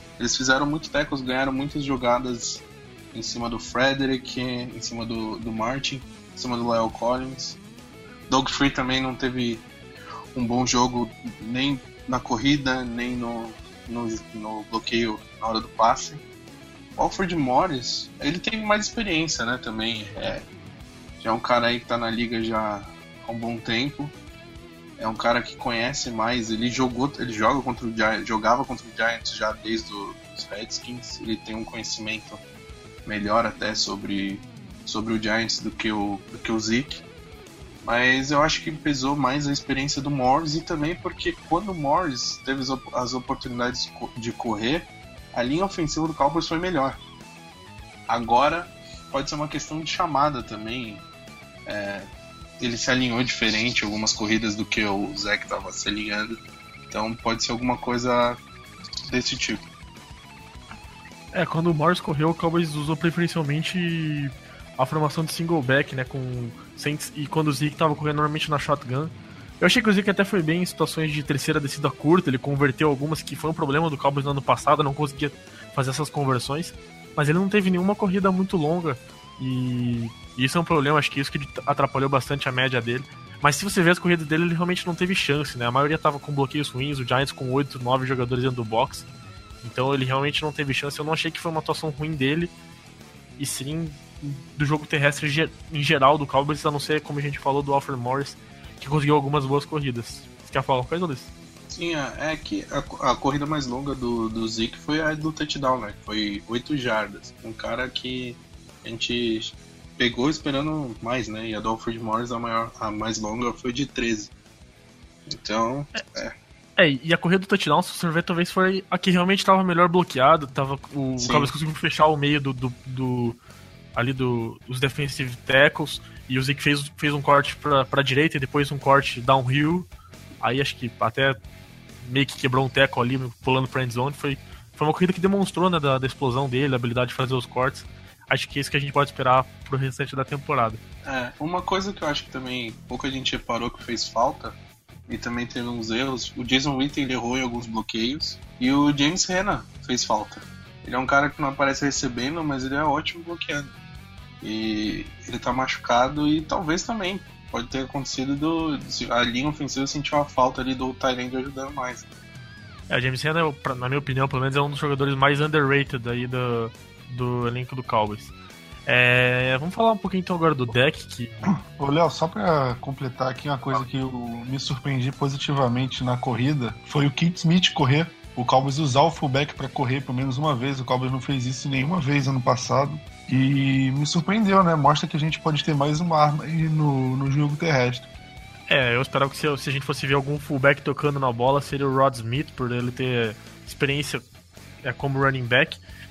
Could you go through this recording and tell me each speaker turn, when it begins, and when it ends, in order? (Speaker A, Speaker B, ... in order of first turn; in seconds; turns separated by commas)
Speaker A: 0.2-7.6, Speaker A: 8.3-9.7, Speaker A: 10.3-16.2, Speaker A: 17.0-20.4, Speaker A: 21.2-24.1, Speaker A: 25.0-32.4, Speaker A: 33.1-37.0, Speaker A: 37.8-47.0, Speaker A: 48.1-51.0, Speaker A: 51.7-52.1, Speaker A: 52.6-58.4, Speaker A: 59.1-59.6, Speaker B: 61.3-89.0, Speaker B: 89.6-92.5, Speaker B: 93.4-101.3, Speaker A: 101.7-114.3, Speaker A: 115.3-116.3, Speaker B: 116.8-123.4, Speaker A: 121.2-121.5, Speaker B: 124.0-129.9, Speaker B: 130.4-131.4, Speaker B: 132.0-140.8, Speaker A: 141.1-144.6, Speaker A: 145.1-153.7, Speaker A: 154.4-162.1, Speaker B: 162.9-168.3, Speaker B: 168.9-171.5, Speaker C: 171.7-188.1, Speaker B: 188.7-194.2, Speaker B: 194.8-195.8